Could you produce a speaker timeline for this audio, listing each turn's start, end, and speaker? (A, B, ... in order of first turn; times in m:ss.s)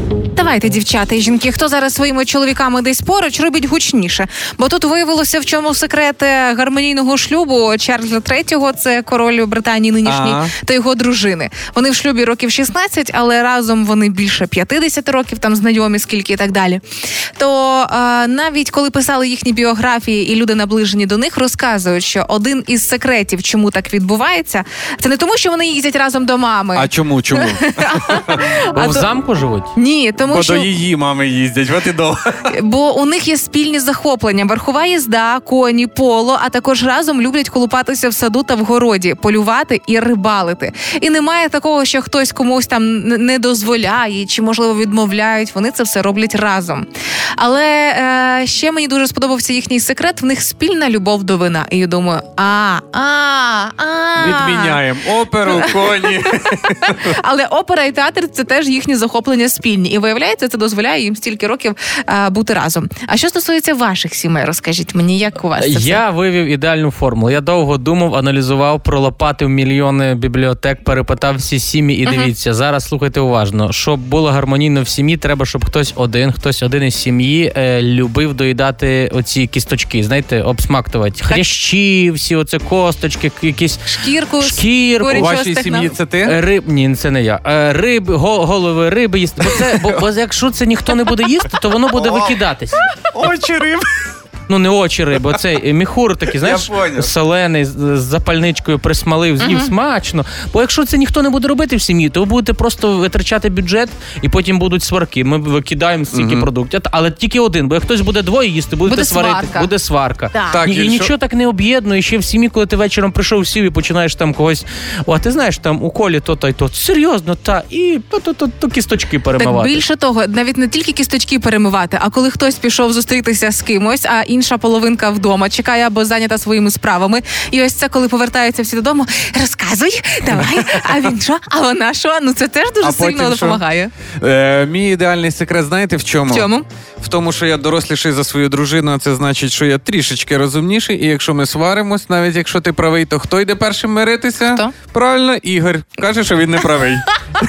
0:00.3-0:16.8 A
0:10.0-0:10.5 B
0:17.4-0:29.1 A
0:26.7-0:29.0 B
0:28.8-0:29.7 C
0:29.7-0:30.7 A
0:30.2-0:32.5 B
0:32.5-0:46.8 A
0:47.4-0:54.8 A
0:54.2-0:57.1 B
0:55.5-0:56.2 A
0:56.8-1:06.0 A
1:05.6-1:23.8 C
1:12.0-1:12.3 A
1:23.8-1:25.9 A
1:24.4-1:25.4 C
1:25.1-1:26.3 B
1:26.2-1:32.9 C
1:33.0-1:33.9 B
1:34.5-1:59.8 C
1:36.4-1:37.1 B
1:39.4-1:39.7 A
1:46.1-1:46.5 B
1:48.8-1:49.7 A
1:50.5-1:51.1 B
1:59.4-2:13.9 A
2:12.8-2:13.6 B
2:14.2-2:27.0 B
2:16.3-2:16.6 A